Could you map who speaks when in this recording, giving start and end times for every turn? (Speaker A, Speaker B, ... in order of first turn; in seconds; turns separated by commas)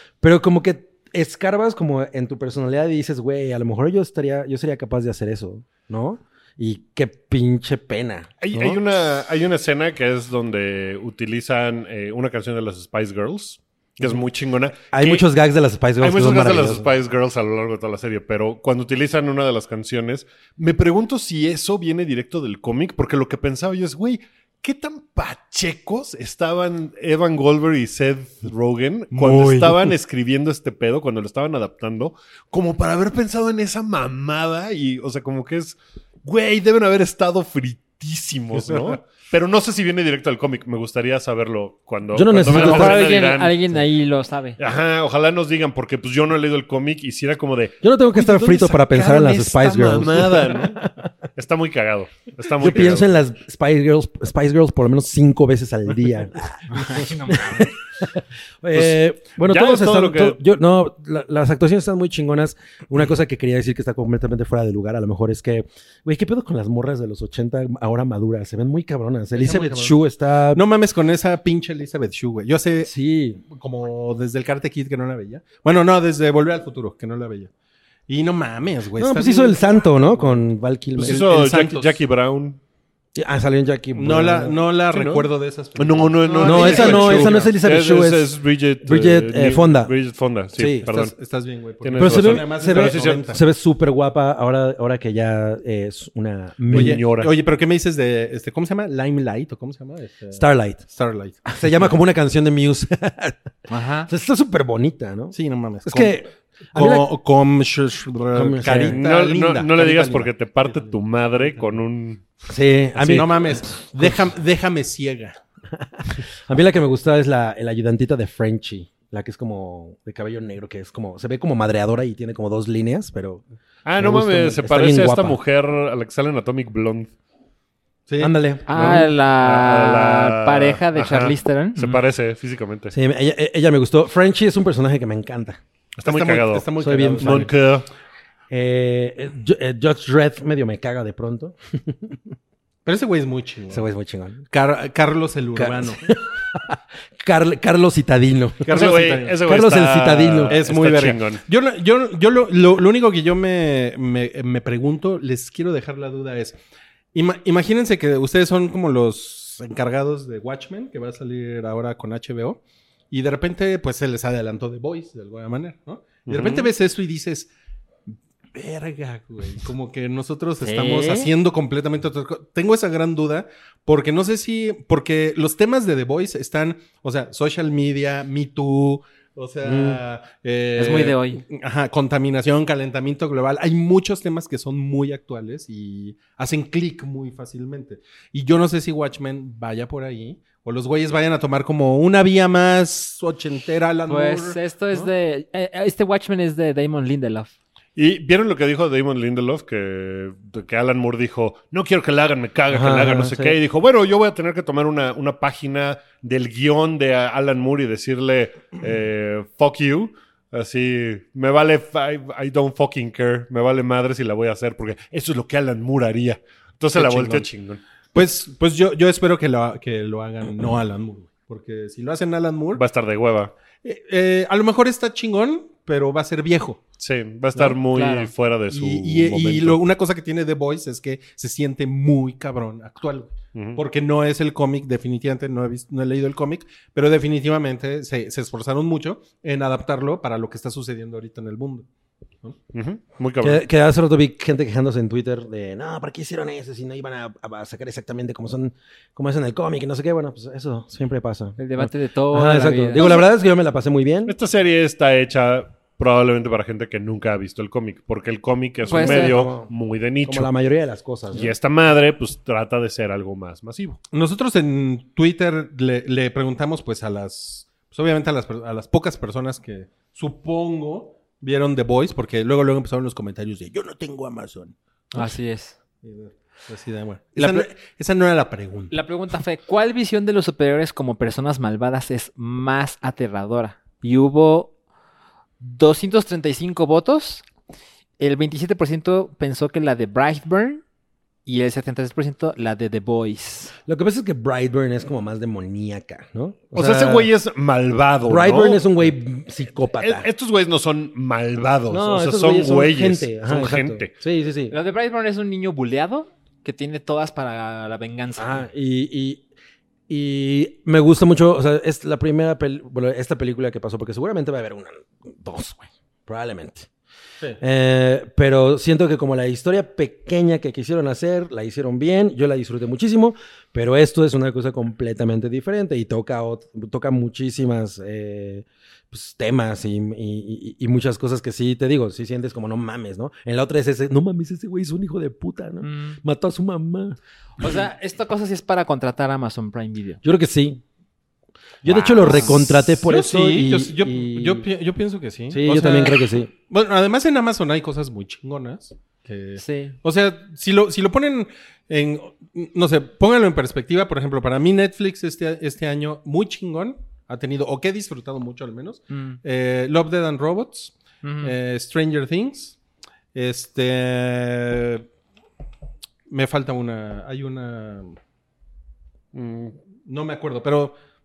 Speaker A: 0.2-8.8, Speaker B: 8.4-15.2, Speaker A: 14.9-16.9, Speaker B: 16.0-43.6, Speaker C: 29.1-29.9, Speaker A: 42.1-43.0, Speaker D: 42.5-44.6, Speaker B: 44.6-50.9, Speaker A: 47.8-51.1, Speaker B: 51.4-53.1, Speaker A: 52.6-70.6, Speaker D: 56.9-57.7, Speaker B: 58.8-60.4, Speaker C: 69.3-70.0, Speaker C: 70.5-72.9, Speaker A: 72.8-73.4, Speaker C: 73.5-77.5, Speaker C: 78.1-80.5, Speaker A: 79.0-81.2, Speaker C: 81.0-82.0, Speaker B: 81.0-82.6, Speaker A: 83.2-84.6, Speaker C: 83.9-87.5, Speaker B: 84.9-85.3, Speaker B: 85.8-91.1, Speaker A: 86.4-89.9, Speaker A: 90.6-90.9, Speaker C: 90.8-93.4, Speaker B: 91.8-93.3, Speaker A: 92.0-97.0, Speaker B: 96.7-97.3, Speaker C: 96.7-101.9, Speaker A: 100.3-100.8, Speaker A: 101.5-103.4, Speaker D: 103.7-104.1, Speaker A: 104.1-107.1, Speaker C: 105.3-106.2, Speaker C: 106.7-111.8, Speaker A: 108.3-109.0, Speaker B: 108.9-112.2, Speaker A: 112.5-114.3, Speaker C: 113.0-115.4, Speaker A: 115.8-123.4, Speaker B: 123.8-127.1, Speaker A: 124.0-125.4, Speaker C: 128.1-128.3, Speaker A: 128.2-129.1, Speaker D: 128.7-132.0, Speaker B: 128.8-132.9, Speaker A: 132.9-135.6, Speaker B: 136.0-137.9, Speaker C: 136.1-137.5, Speaker A: 136.8-137.5, Speaker A: 138.5-142.2, Speaker C: 142.8-143.9, Speaker A: 143.7-144.5, Speaker C: 144.5-146.1, Speaker A: 145.6-148.8, Speaker B: 148.7-151.4, Speaker C: 148.7-149.4, Speaker A: 149.4-150.6, Speaker C: 150.5-156.6, Speaker C: 157.1-167.5, Speaker B: 166.3-166.7, Speaker C: 168.5-195.1, Speaker D: 170.6-171.3, Speaker A: 179.7-180.0, Speaker D: 180.8-181.4, Speaker D: 194.1-197.5, Speaker B: 198.0-217.8, Speaker A: 202.7-203.6, Speaker C: 216.9-217.5, Speaker C: 218.1-222.8, Speaker B: 222.8-223.5, Speaker C: 223.8-226.8, Speaker B: 227.0-229.8, Speaker D: 227.6-228.3, Speaker C: 228.7-241.9, Speaker B: 233.6-233.8, Speaker B: 242.7-243.6, Speaker A: 243.4-254.3, Speaker D: 251.6-253.2, Speaker B: 253.0-253.3, Speaker B: 254.3-260.5, Speaker A: 258.9-259.7, Speaker D: 258.9-259.4, Speaker A: 260.2-261.5, Speaker B: 261.3-264.0, Speaker C: 264.1-275.3, Speaker D: 275.1-275.8, Speaker C: 276.0-278.9, Speaker D: 277.4-277.7, Speaker D: 278.9-284.7, Speaker D: 285.6-287.4, Speaker D: 288.2-290.8, Speaker D: 291.5-293.7, Speaker A: 293.9-297.3, Speaker B: 296.7-298.9, Speaker A: 298.3-300.3, Speaker B: 300.0-304.1, Speaker A: 301.9-304.8, Speaker D: 304.7-308.6, Speaker A: 308.4-309.4, Speaker A: 310.1-316.9, Speaker A: 317.6-337.2, Speaker D: 335.8-336.2, Speaker D: 337.6-340.2, Speaker A: 340.2-340.8, Speaker A: 341.8-344.7, Speaker D: 341.9-342.7, Speaker C: 342.9-362.8, Speaker A: 345.5-346.5, Speaker D: 349.6-350.0, Speaker D: 359.1-359.4, Speaker D: 361.2-361.5, Speaker C: 363.3-365.1, Speaker C: 366.3-368.2, Speaker B: 369.3-369.8, Speaker C: 370.1-370.9